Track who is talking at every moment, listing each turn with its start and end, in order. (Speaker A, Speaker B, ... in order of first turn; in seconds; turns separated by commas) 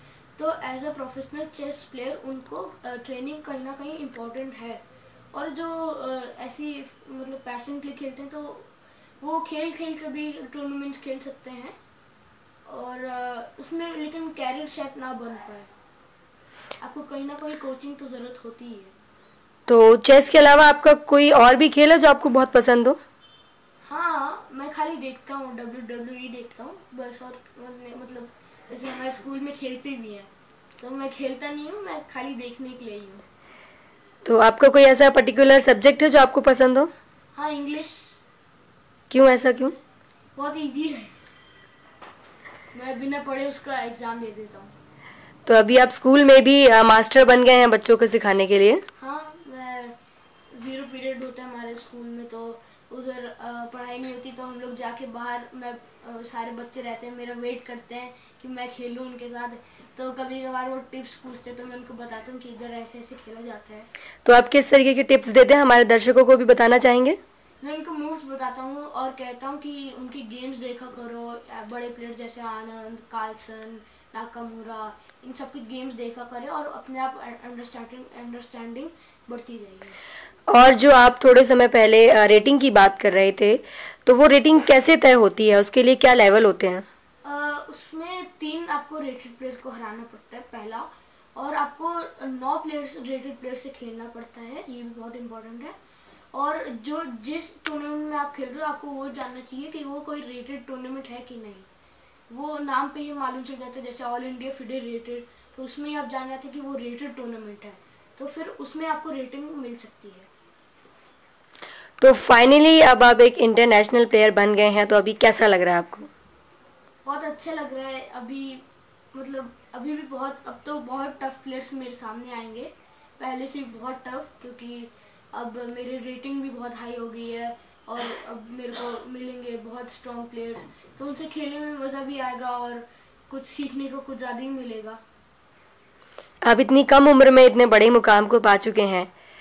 Speaker A: 0.4-4.8, Speaker A: 5.3-8.7, Speaker A: 9.2-11.8, Speaker A: 12.7-15.7, Speaker A: 16.8-18.9, Speaker B: 19.7-23.0, Speaker A: 23.8-33.3, Speaker B: 34.2-36.9, Speaker A: 37.3-38.2, Speaker B: 39.1-39.8, Speaker A: 40.4-41.1, Speaker A: 42.7-44.7, Speaker B: 45.5-48.8, Speaker A: 49.0-50.0, Speaker A: 50.5-63.9, Speaker B: 64.2-67.2, Speaker A: 67.6-80.0, Speaker B: 80.5-86.8, Speaker A: 87.2-95.7, Speaker A: 96.3-101.7, Speaker A: 102.3-110.3, Speaker B: 112.0-116.1, Speaker A: 117.0-135.0, Speaker B: 136.5-139.1